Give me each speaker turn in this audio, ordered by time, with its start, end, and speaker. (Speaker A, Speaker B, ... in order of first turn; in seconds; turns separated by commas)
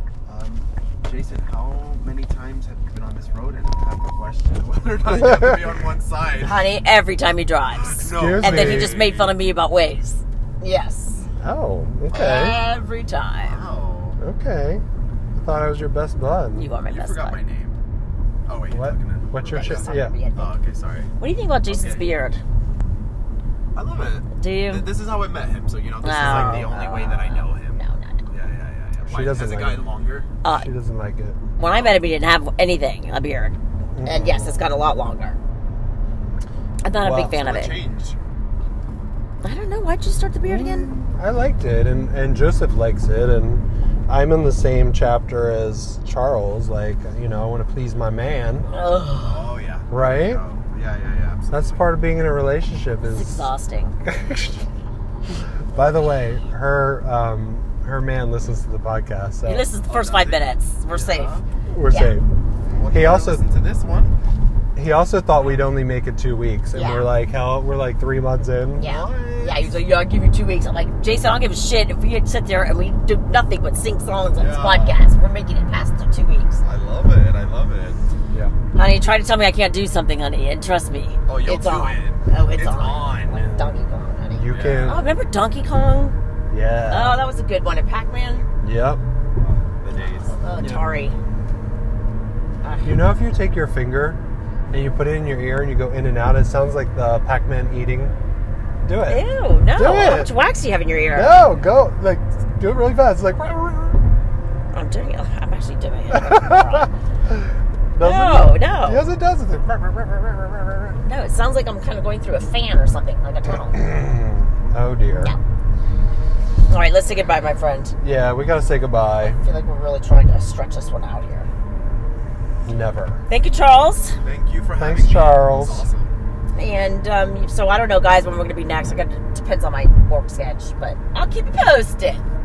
Speaker A: 0.3-6.7, Speaker B: 5.2-5.6, Speaker C: 6.4-11.2, Speaker A: 7.7-9.4, Speaker B: 8.1-9.0, Speaker B: 11.4-12.6, Speaker C: 12.1-13.6, Speaker A: 12.1-12.6, Speaker A: 13.4-14.2, Speaker B: 14.2-14.8, Speaker B: 15.3-16.7, Speaker C: 16.6-17.4, Speaker A: 16.9-17.8, Speaker A: 18.5-21.1, Speaker B: 18.7-20.1, Speaker C: 19.4-20.6, Speaker C: 21.2-22.4, Speaker A: 21.7-22.1, Speaker A: 23.7-30.3, Speaker C: 24.4-24.9, Speaker C: 26.0-28.3, Speaker B: 26.1-26.7, Speaker B: 29.1-29.8, Speaker C: 30.4-30.7, Speaker B: 30.5-31.4, Speaker C: 31.6-35.4, Speaker A: 31.6-32.0, Speaker B: 34.0-34.6, Speaker C: 36.8-37.8, Speaker B: 37.0-37.4, Speaker A: 37.3-38.2, Speaker C: 39.4-40.9, Speaker B: 40.4-48.7, Speaker C: 48.6-49.5, Speaker A: 49.2-51.9, Speaker B: 49.9-50.4, Speaker B: 51.5-53.5, Speaker C: 53.1-54.0, Speaker B: 54.0-54.6, Speaker B: 55.7-59.7, Speaker C: 59.5-61.4, Speaker A: 59.9-61.5, Speaker B: 61.7-62.3, Speaker C: 61.9-62.2, Speaker A: 62.7-64.1, Speaker B: 62.9-63.4, Speaker B: 64.8-68.9, Speaker C: 66.7-67.1, Speaker C: 68.8-76.6, Speaker A: 68.8-69.8, Speaker A: 74.4-75.0, Speaker A: 76.6-78.0, Speaker C: 78.8-86.2, Speaker A: 81.3-83.5, Speaker B: 83.3-83.8, Speaker B: 84.4-85.1, Speaker A: 84.5-85.0, Speaker B: 86.5-87.2, Speaker C: 86.9-88.5, Speaker B: 88.6-89.0, Speaker A: 89.4-90.4, Speaker C: 90.3-91.2, Speaker B: 90.6-90.8, Speaker C: 92.6-93.0, Speaker B: 92.8-94.2, Speaker B: 94.7-98.1, Speaker B: 98.8-100.3, Speaker C: 99.0-101.4, Speaker B: 101.1-104.0, Speaker C: 104.7-106.9, Speaker B: 106.1-111.0, Speaker C: 108.0-109.0, Speaker C: 111.0-113.8, Speaker B: 113.5-115.3, Speaker C: 116.7-117.9, Speaker B: 118.0-119.4, Speaker C: 119.2-121.5, Speaker B: 122.7-123.2, Speaker C: 123.3-124.2, Speaker A: 124.2-126.2, Speaker B: 124.8-125.9, Speaker C: 126.5-132.2